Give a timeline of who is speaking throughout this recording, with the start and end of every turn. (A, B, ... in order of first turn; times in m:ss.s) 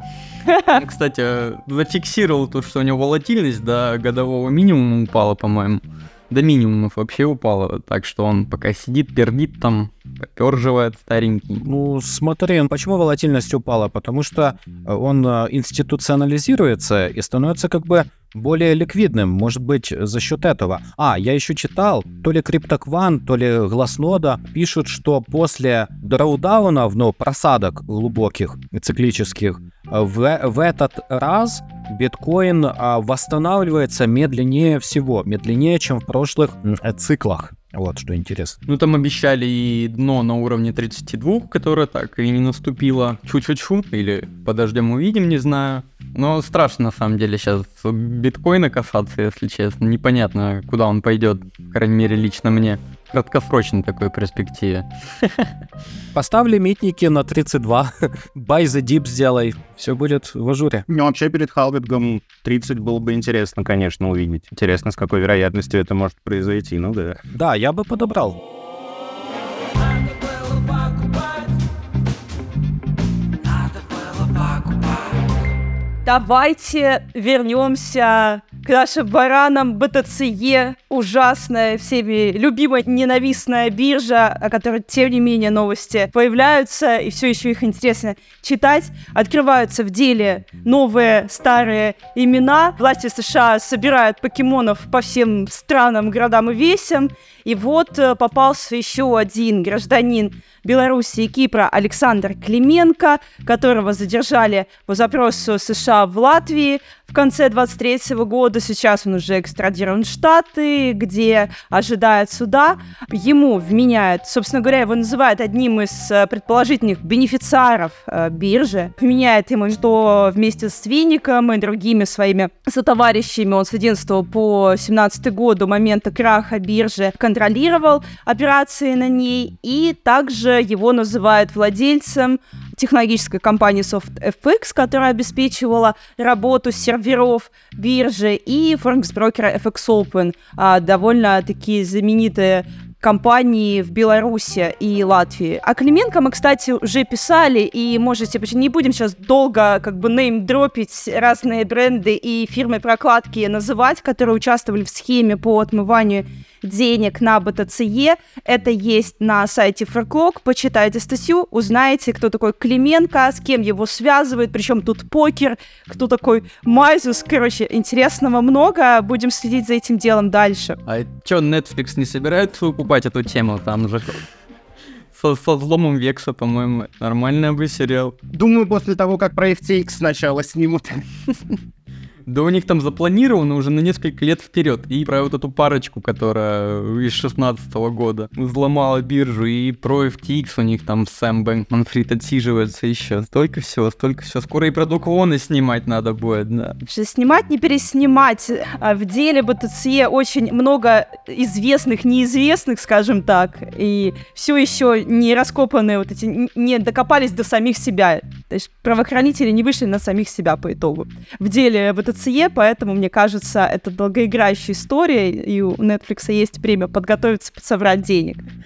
0:00.5-0:00.8 A
0:00.7-0:11.6 B
0:11.6-0:38.6 C
0:38.7-0:55.5 B
0:56.1-1:00.8 C
1:00.9-1:07.2 D
1:07.3-1:08.4 C
1:16.0-2:50.8 A
2:50.9-2:54.2 B
2:55.1-2:58.1 B
2:58.3-3:01.0 D
3:02.2-3:16.8 B
3:16.8-3:38.4 A